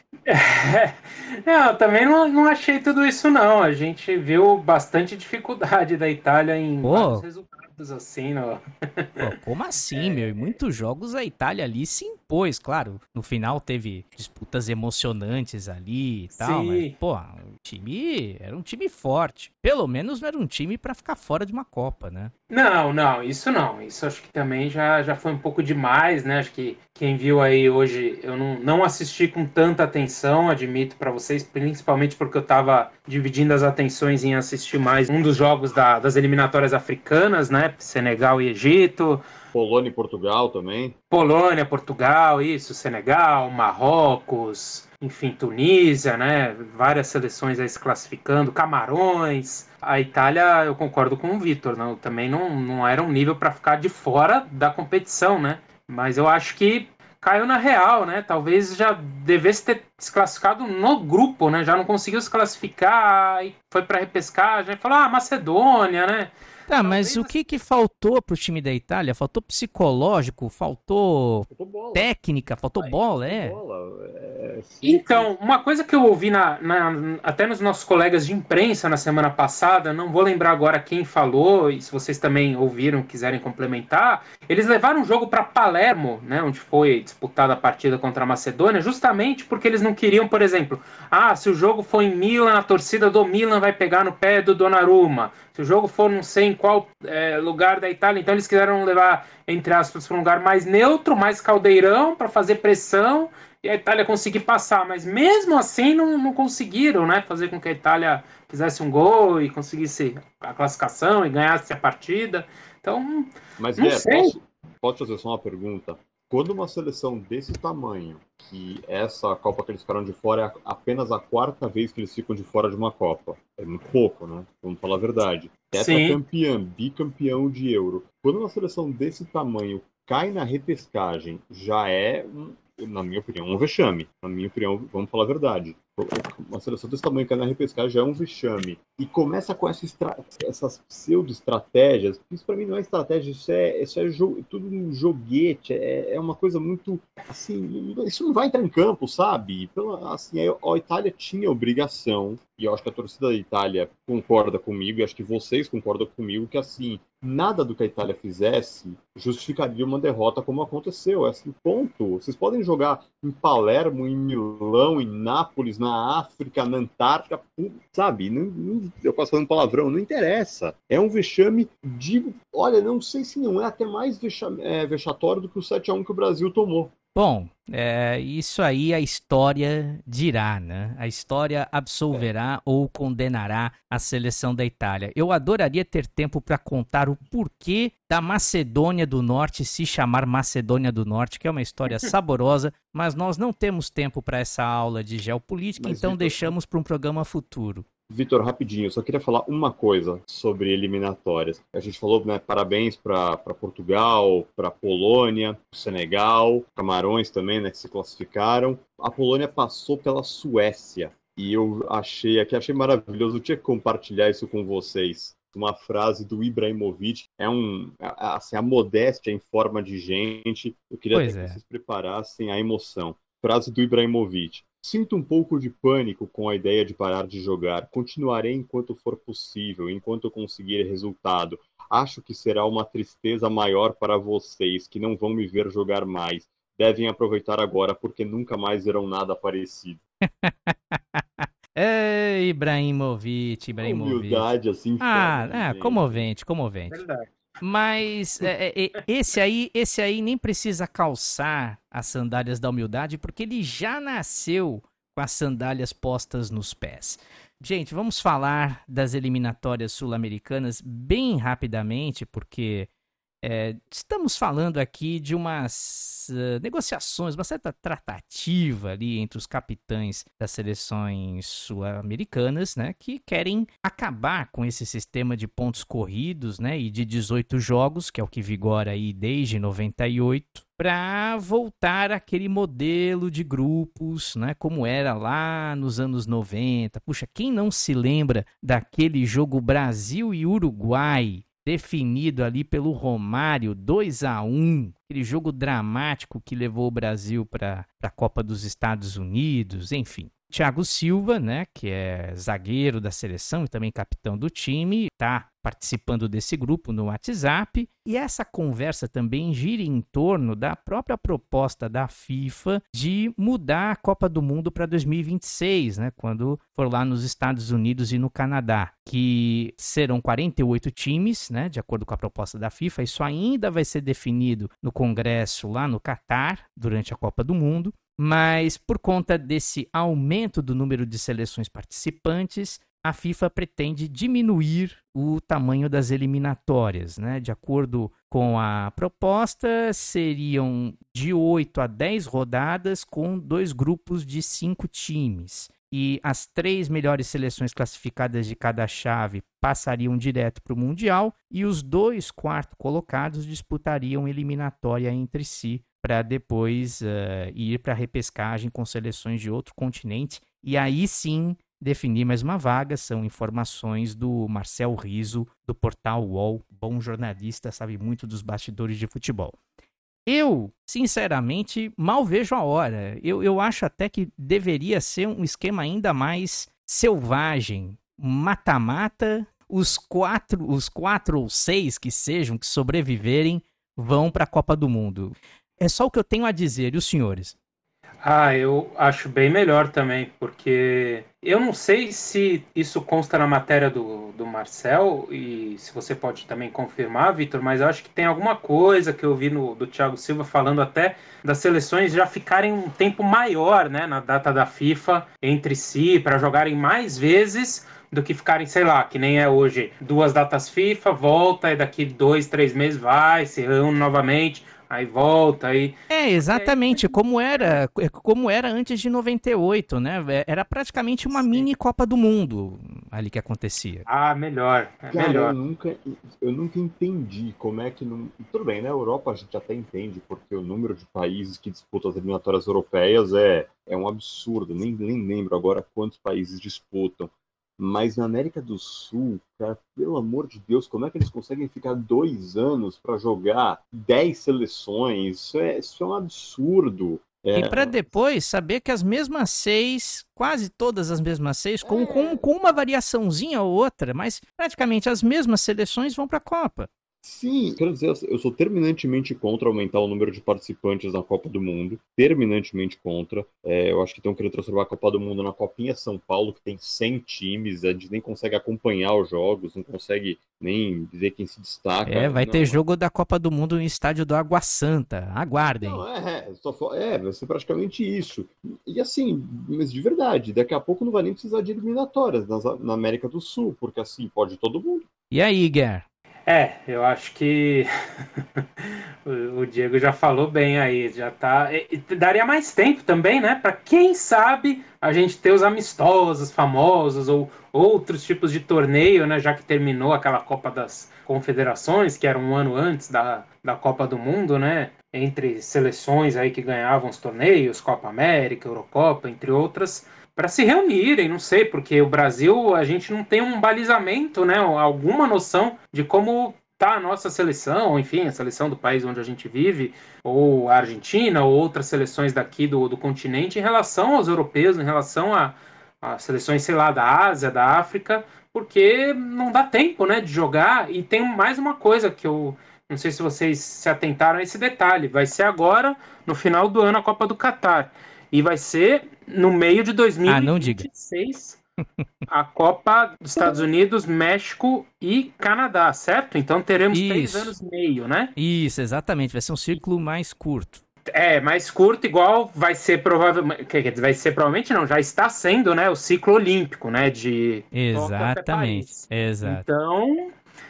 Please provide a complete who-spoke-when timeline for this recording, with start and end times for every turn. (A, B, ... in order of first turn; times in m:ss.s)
0:00.3-0:09.2 A
0:06.8-0:07.2 B
0:09.2-0:22.3 B
0:09.9-0:10.6 A
0:16.3-0:16.9 A
0:22.5-0:39.2 A
0:39.5-0:41.0 C
0:41.1-1:07.3 A
1:06.7-1:13.6 B
1:11.5-1:12.1 C
1:13.2-1:15.3 C
1:14.8-1:54.3 A
1:53.6-2:56.9 C
2:05.7-2:06.2 A
2:57.1-3:17.8 B
3:15.8-3:16.5 C
3:18.1-4:00.0 C
3:41.1-3:41.6 B
4:00.2-4:07.0 B
4:03.8-4:06.3 C
4:06.9-4:07.3 A
4:07.6-4:22.9 B
4:23.4-6:09.6 B
6:10.2-6:27.5 B
6:28.2-6:57.8 A
6:56.1-7:04.0 B
7:01.3-7:01.7 C
7:04.0-7:05.5 A
7:05.1-7:28.0 C
7:27.5-7:36.9 B
7:31.8-7:32.4 C
7:37.2-7:52.8 C
7:52.0-7:56.0 B
7:55.8-8:05.1 C
8:05.3-8:06.0 B
8:06.5-9:01.6 A
9:00.3-9:00.8 B
9:02.3-9:08.3 A
9:06.9-9:07.5 B
9:08.4-9:10.8 B
9:11.1-9:20.2 A
9:17.7-9:19.6 B